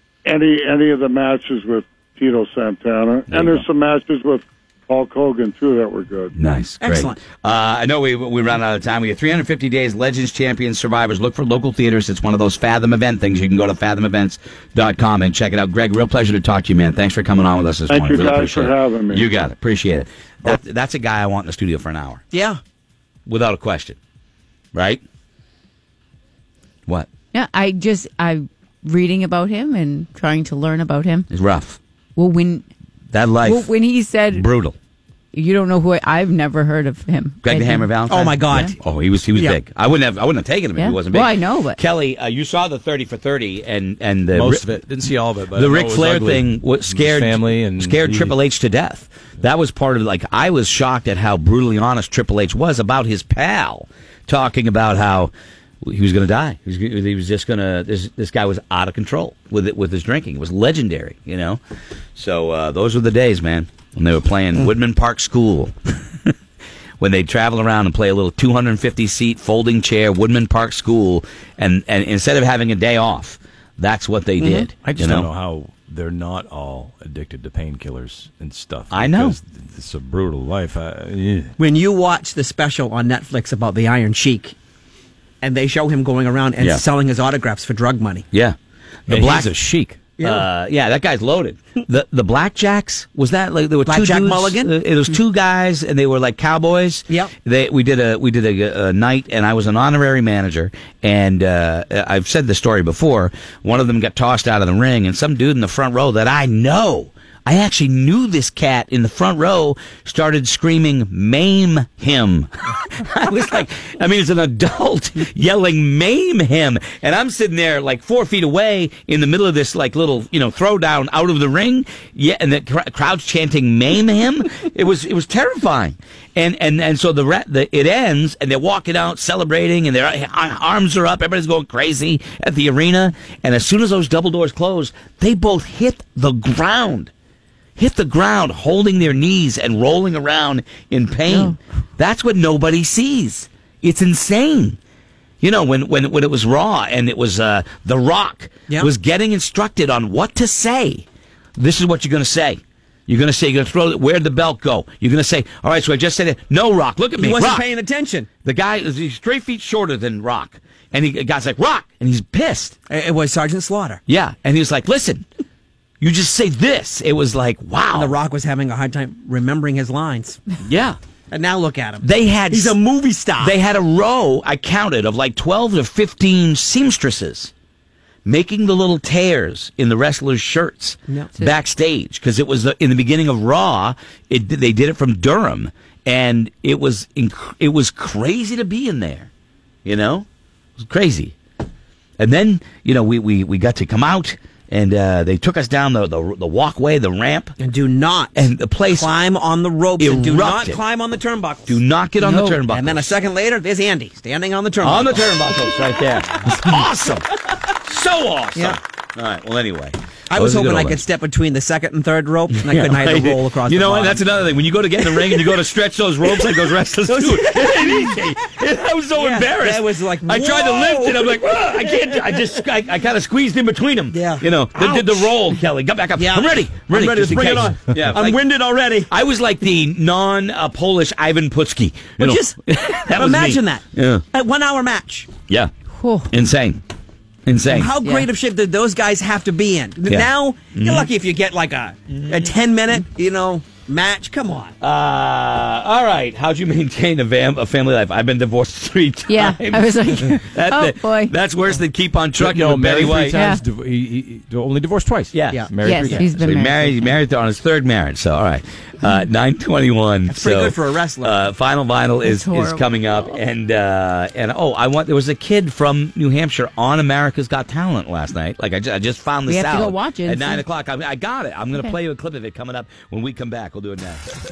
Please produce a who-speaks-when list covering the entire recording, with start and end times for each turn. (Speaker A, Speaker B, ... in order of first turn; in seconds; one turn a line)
Speaker A: 0.2-6.3
Speaker B: 3.3-3.6
Speaker B: 6.3-22.2
Speaker C: 6.8-7.2
Speaker A: 17.9-19.2
Speaker C: 22.3-22.6
Speaker B: 23.3-24.0
Speaker B: 24.7-25.0
Speaker D: 27.3-31.3
Speaker B: 31.3-31.8
Speaker D: 32.2-32.7
Speaker B: 33.1-33.8
Speaker D: 33.4-34.5
Speaker B: 34.3-34.8
Speaker D: 35.3-37.9
Speaker B: 37.4-44.7
Speaker C: 38.1-38.8
Speaker D: 40.8-41.8
Speaker E: 44.3-48.4
Speaker B: 45.5-61.6
Speaker B: 62.1-65.7
Speaker B: 67.0-75.3
Speaker C: 74.4-74.7
Speaker E: 74.8-81.5
Speaker B: 78.9-79.4
Speaker C: 81.6-84.5
Speaker C: 85.4-88.3
Speaker B: 89.1-89.6
Speaker C: 89.1-89.5
Speaker E: 89.1-90.0
Speaker C: 90.2-90.5
Speaker B: 90.2-137.1
Speaker C: 93.9-94.7
Speaker B: 137.8-144.8
Speaker B: 145.4-151.1
Speaker B: 151.6-157.7
Speaker C: 157.2-158.3
Speaker B: 158.4-162.8
Speaker C: 162.9-164.0
Speaker B: 164.1-165.2
Speaker B: 166.0-168.1
Speaker C: 167.9-170.4
Speaker B: 170.7-171.0
Speaker C: 171.3-173.6
Speaker B: 172.0-172.8
Speaker B: 173.4-177.5
Speaker B: 178.3-189.3
Speaker B: 189.8-190.3
Speaker B: 190.8-191.3
Speaker B: 192.2-197.6
Speaker C: 197.6-201.8
Speaker B: 198.3-199.1
Speaker B: 200.0-200.8
Speaker B: 201.7-203.1
Speaker D: 202.2-202.6
Speaker C: 202.7-205.3
Speaker B: 204.8-207.2
Speaker C: 206.5-206.8
Speaker B: 207.8-211.0
Speaker C: 210.3-214.3
Speaker B: 212.7-228.4
Speaker C: 215.1-215.5
Speaker C: 217.1-217.9
Speaker C: 219.1-222.3
Speaker C: 224.1-225.3
Speaker C: 226.2-229.1
Speaker B: 229.1-234.2
Speaker C: 232.2-232.6
Speaker C: 233.1-235.3
Speaker D: 235.9-236.3
Speaker B: 236.3-236.8
Speaker B: 237.5-237.9
Speaker C: 237.7-244.7
Speaker D: 238.0-238.3
Speaker B: 240.1-241.1
Speaker B: 244.8-253.4
Speaker D: 249.3-251.3
Speaker E: 252.4-256.3
Speaker D: 253.3-253.6
Speaker B: 255.3-274.2
Speaker C: 255.5-256.2
Speaker D: 255.8-257.2
Speaker C: 260.3-261.4
Speaker D: 262.2-262.9
Speaker D: 269.5-270.6